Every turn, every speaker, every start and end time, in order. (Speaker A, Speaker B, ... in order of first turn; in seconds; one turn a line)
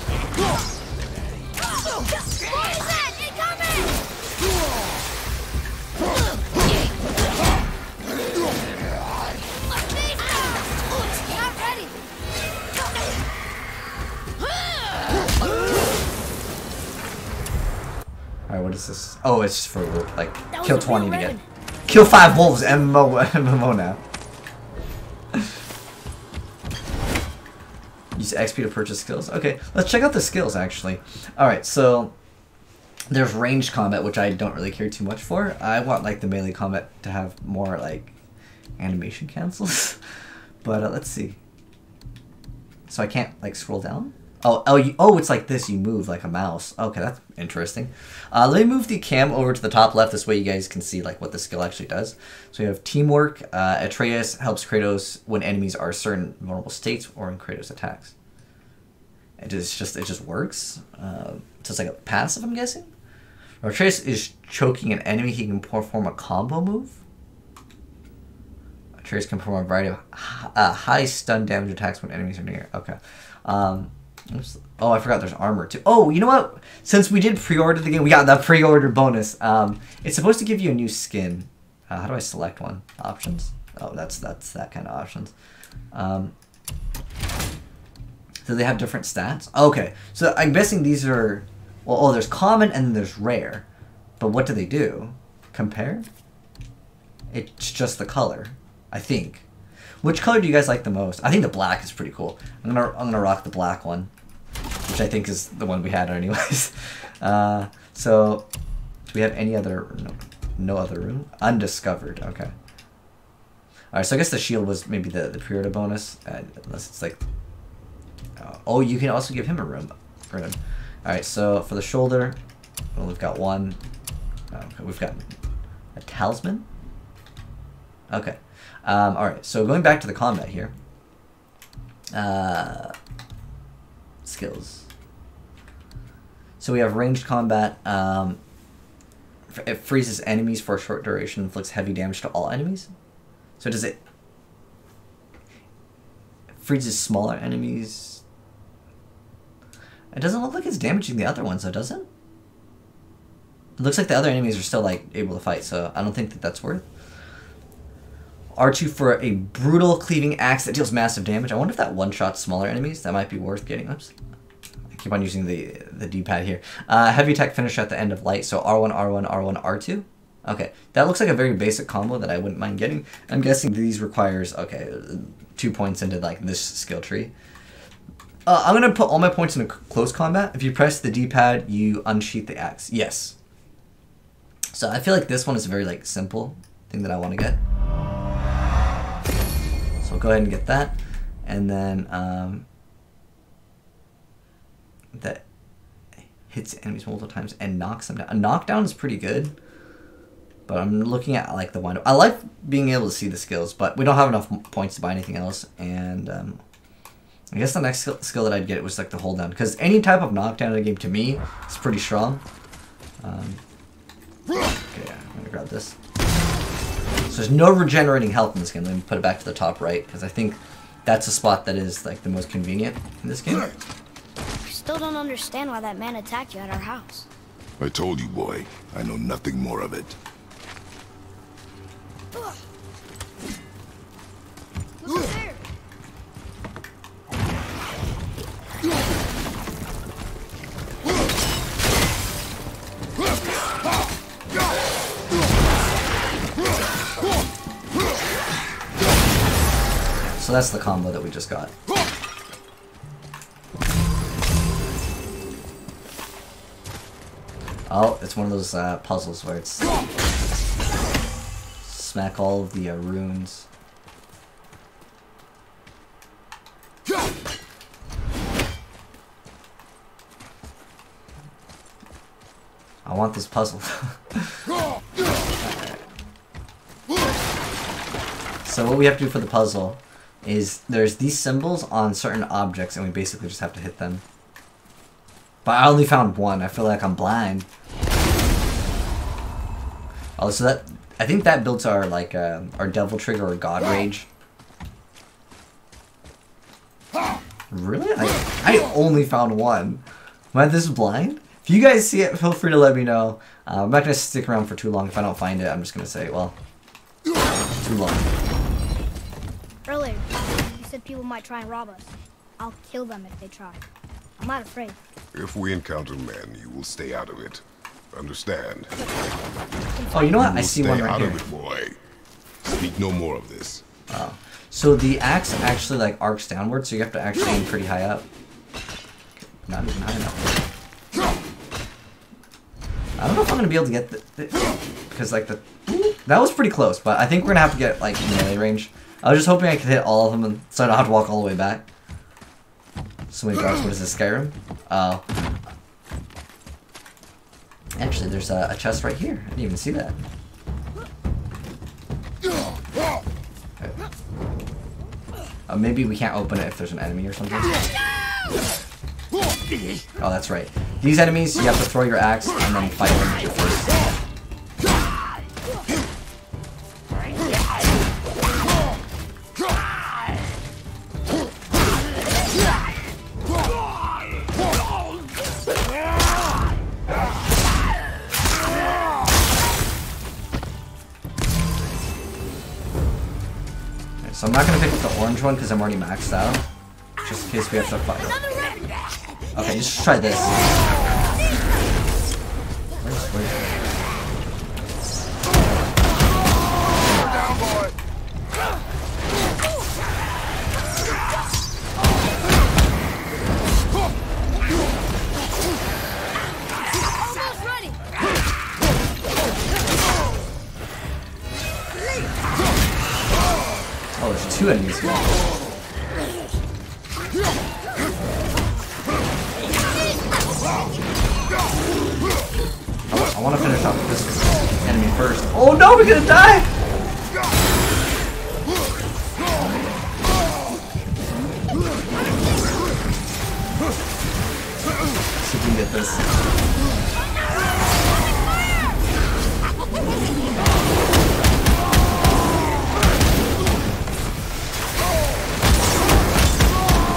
Speaker A: 2.0-3.9
Speaker A: 11.0-12.0
Speaker B: 18.5-24.0
Speaker A: 20.5-21.4
Speaker B: 28.1-32.1
Speaker B: 33.1-38.1
Speaker B: 38.8-40.0
Speaker B: 40.6-41.4
Speaker B: 42.9-58.1
Speaker B: 59.4-62.9
Speaker B: 63.6-67.0
Speaker B: 69.0-85.3
Speaker B: 85.9-86.3
Speaker B: 88.4-93.7
Speaker B: 94.2-96.1
Speaker B: 97.3-99.4
Speaker B: 100.0-104.1
Speaker B: 104.9-108.5
Speaker B: 109.1-112.5
Speaker B: 113.9-117.2
Speaker B: 118.4-122.4
Speaker B: 123.0-123.8
Speaker B: 124.5-125.2
Speaker B: 126.0-126.7
Speaker B: 128.1-130.7
Speaker B: 132.1-132.9
Speaker B: 134.2-134.9
Speaker B: 136.6-138.4
Speaker B: 139.5-142.9
Speaker B: 143.6-144.0
Speaker B: 146.5-148.2
Speaker B: 150.1-152.1
Speaker B: 153.8-156.8
Speaker B: 158.6-164.1
Speaker B: 164.9-177.3
Speaker B: 178.4-183.3
Speaker B: 184.7-187.6
Speaker B: 190.0-192.7
Speaker B: 195.1-195.4
Speaker B: 196.5-199.5
Speaker B: 200.7-206.6
Speaker B: 207.5-212.4
Speaker B: 213.2-213.6
Speaker B: 214.9-215.9
Speaker B: 217.3-223.7
Speaker A: 224.6-227.3
Speaker C: 227.8-230.2
Speaker A: 235.0-235.7
Speaker B: 250.4-251.7
Speaker B: 257.9-259.9
Speaker B: 261.8-263.7
Speaker B: 273.1-274.6
Speaker B: 275.6-276.0
Speaker B: 278.6-284.2
Speaker B: 285.6-287.7
Speaker B: 290.4-294.3
Speaker B: 297.7-306.6
Speaker B: 307.8-308.3
Speaker A: 309.9-313.8
Speaker A: 314.4-315.0
Speaker C: 315.3-318.9
Speaker A: 319.9-320.4
Speaker B: 320.1-321.4
Speaker C: 320.3-322.0
Speaker C: 322.6-323.8
Speaker B: 324.1-328.2
Speaker B: 329.6-330.5
Speaker B: 333.2-334.6
Speaker B: 335.1-341.9
Speaker B: 343.3-345.2
Speaker B: 347.9-350.2
Speaker B: 355.7-357.7
Speaker B: 360.2-364.0
Speaker B: 384.2-386.6
Speaker B: 387.2-388.4
Speaker B: 389.5-390.5
Speaker B: 393.0-393.6
Speaker A: 407.0-408.0
Speaker B: 414.1-415.4
Speaker B: 423.1-426.7
Speaker B: 435.4-436.2